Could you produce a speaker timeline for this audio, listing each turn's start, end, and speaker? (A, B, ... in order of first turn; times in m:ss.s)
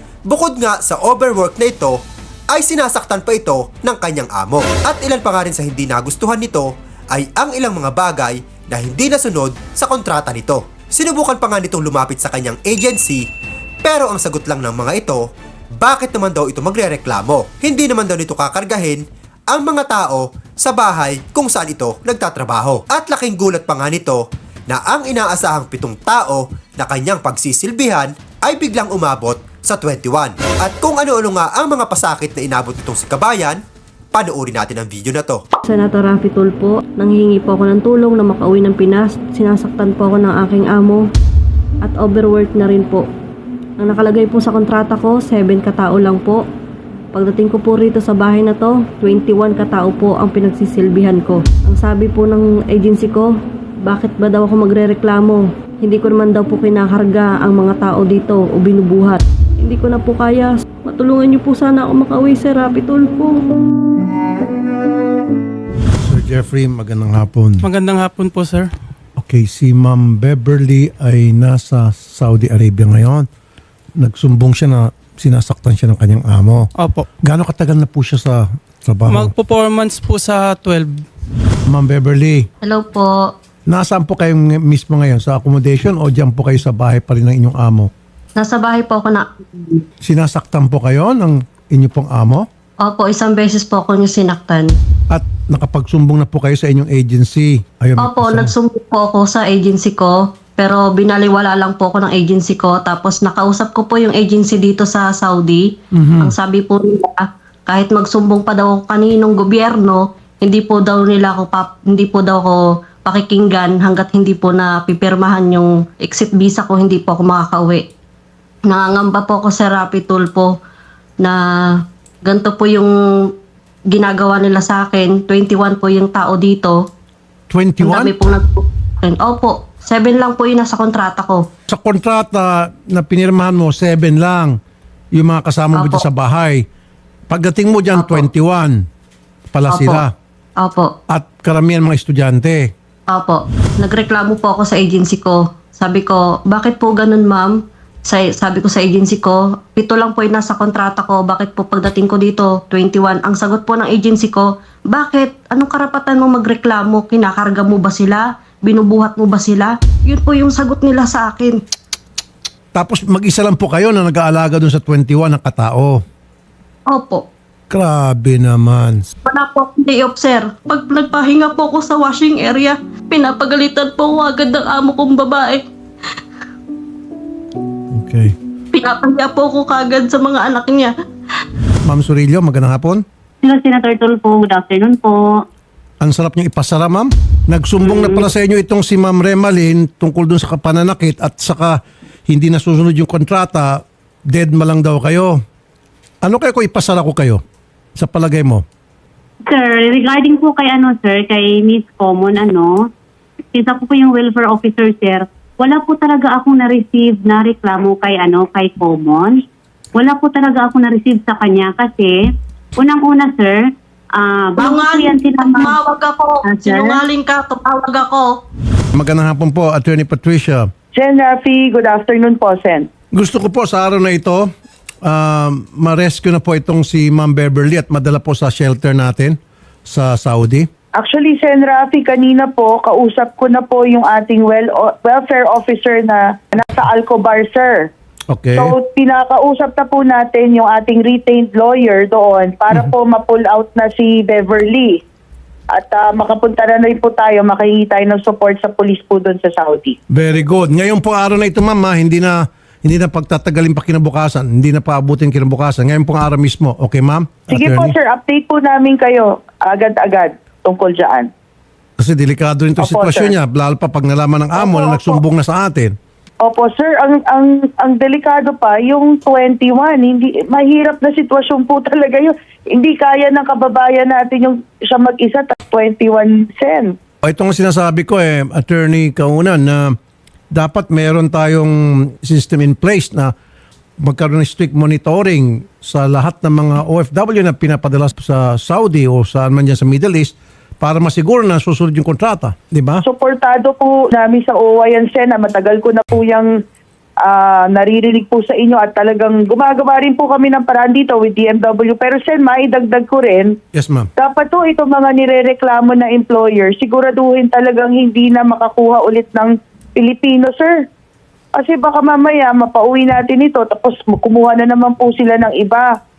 0:00.3-0:02.0 A
0:02.5-0:13.2 A
0:13.8-0:15.2 A
0:15.8-0:33.6 A
0:34.1-0:35.4 A
0:35.6-0:41.0 B
0:41.8-0:43.1 B
0:43.8-0:46.4 B
0:47.1-1:03.4 B
1:06.0-1:07.7 C
1:07.6-1:08.7 D
1:09.2-1:13.3 C
1:14.0-1:16.7 C
1:16.8-1:17.0 D
1:17.2-1:19.3 C
1:19.1-1:21.0 D
1:21.7-1:22.5 C
1:22.6-1:23.3 B
1:23.7-1:27.9 C
1:28.4-1:29.3 B
1:30.0-1:32.4 C
1:32.8-1:34.8 B
1:35.1-1:38.5 C
1:38.0-1:57.8 B
1:45.9-1:46.3 C
1:58.6-2:00.5 B
2:01.2-2:03.3 B
2:03.9-2:06.8 B
2:07.5-2:08.1 C
2:07.8-2:11.5 B
2:11.7-2:14.6 C
2:15.1-2:16.6 C
2:15.7-2:16.0 B
2:17.3-2:18.8 C
2:17.9-2:18.2 B
2:19.5-2:20.1 C
2:19.7-2:20.0 B
2:20.6-2:20.9 B
2:21.1-2:22.7 C
2:23.1-2:41.6 B
2:42.7-2:46.0 C
2:46.9-2:47.2 B
2:47.7-2:49.0 C
2:49.2-2:55.6 B
2:57.9-2:58.3 C
2:58.7-3:00.9 B
3:01.8-3:03.0 C
3:03.4-3:05.2 E
3:06.0-3:11.8 C
3:07.8-3:08.2 E
3:12.3-3:13.8 C
3:14.3-3:15.4 C
3:16.2-3:17.4 C
3:18.0-3:18.6 C
3:19.5-3:22.8 E
3:23.5-3:29.4 E
3:29.9-3:32.2 E
3:32.8-3:33.6 E
3:34.2-3:35.9 E
3:34.6-3:38.4 B
3:36.5-3:37.0 E
3:38.9-3:40.7 C
3:41.0-3:42.8 F
3:43.1-3:44.4 C
3:45.0-3:49.4 C
3:49.9-3:50.7 C
3:51.0-3:57.9 F
3:58.3-3:58.7 C
3:58.6-4:05.0 F
4:05.7-4:10.0 F
4:10.1-4:18.0 C
4:17.5-4:21.3 F
4:22.0-4:25.9 C
4:22.8-4:23.3 F
4:24.6-4:25.2 F
4:26.4-4:36.9 F
4:37.2-4:39.9 C
4:40.5-4:43.3 C
4:44.0-4:53.0 C
4:53.1-4:56.5 F
4:57.2-5:03.5 F
5:03.7-5:04.1 C
5:04.2-5:10.8 F
5:11.6-5:15.9 F